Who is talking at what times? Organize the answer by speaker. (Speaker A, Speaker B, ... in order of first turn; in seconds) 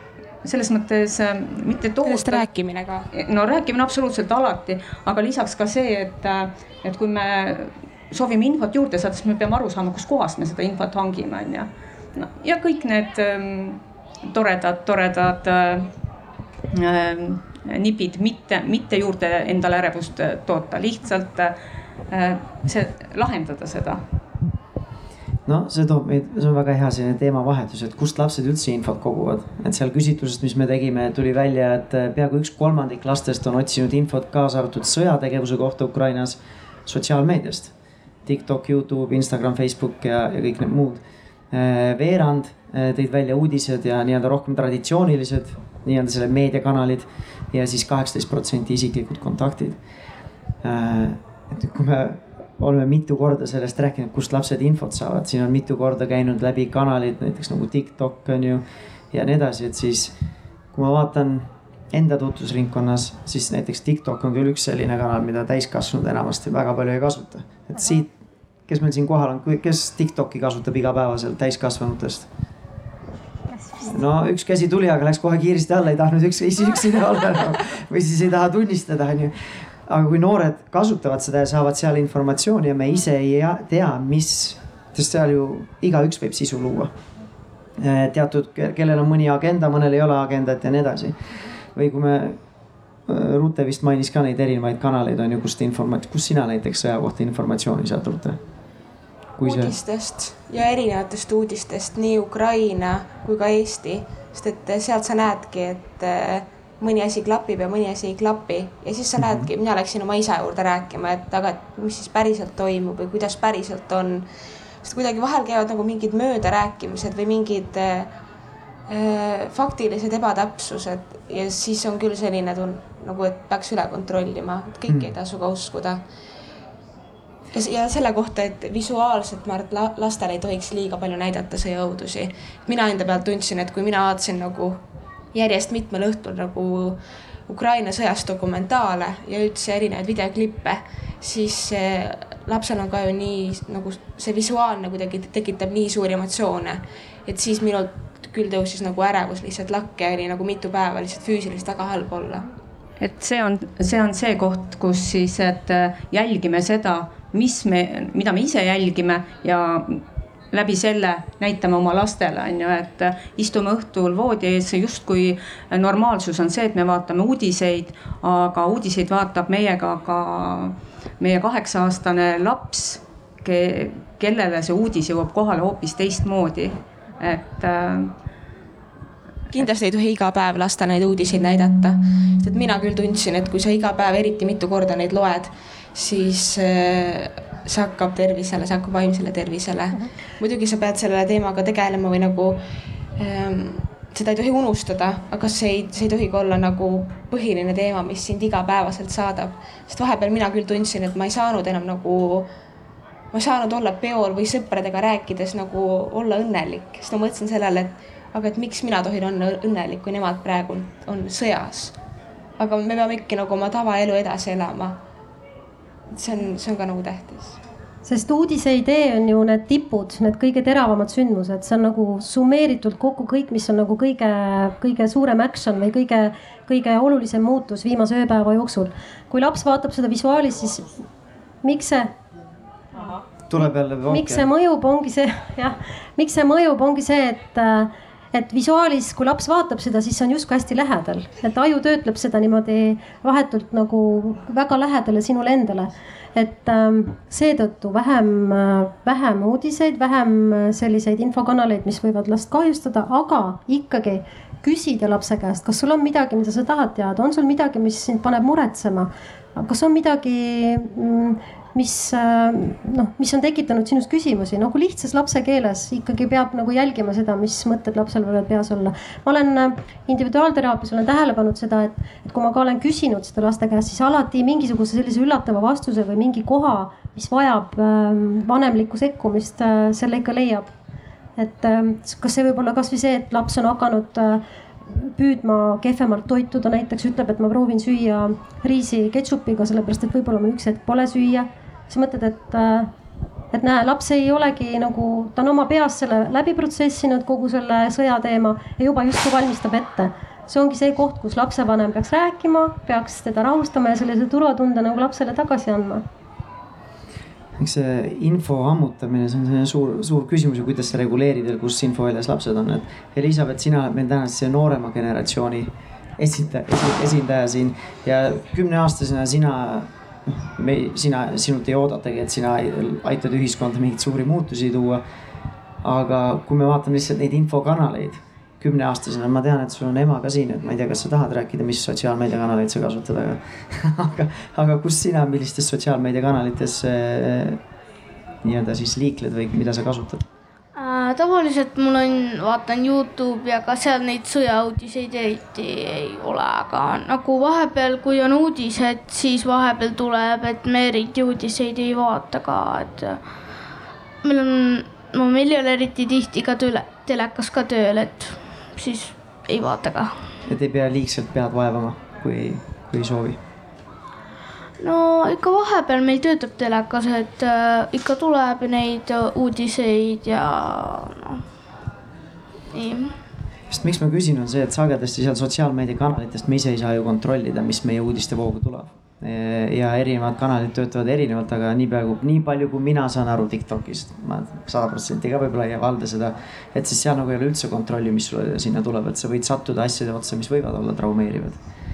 Speaker A: 0.4-2.5, 3.1-15.9, 16.7-21.5, 22.1-24.0, 153.0-178.1
Speaker B: 2.0-3.1, 99.4-114.2, 114.8-118.1, 118.9-126.0, 127.5-134.8, 135.3-152.5, 179.5-192.6, 193.2-202.5, 203.3-211.9, 212.6-215.0, 216.1-217.6
Speaker C: 25.5-37.7, 38.3-49.8, 50.6-60.1, 60.7-68.1, 68.7-72.3, 73.8-86.9, 87.8-91.1, 91.8-92.4, 93.1-98.4, 99.4-99.8, 109.2-109.5, 233.5-234.5, 307.6-325.0, 325.8-337.6, 338.4-340.3, 360.5-363.4, 373.7-391.6
Speaker D: 218.1-231.0, 231.6-232.2, 234.1-280.7, 281.4-292.9, 293.5-306.0
Speaker E: 340.8-353.2, 354.2-360.2, 364.8-371.4, 372.7-373.1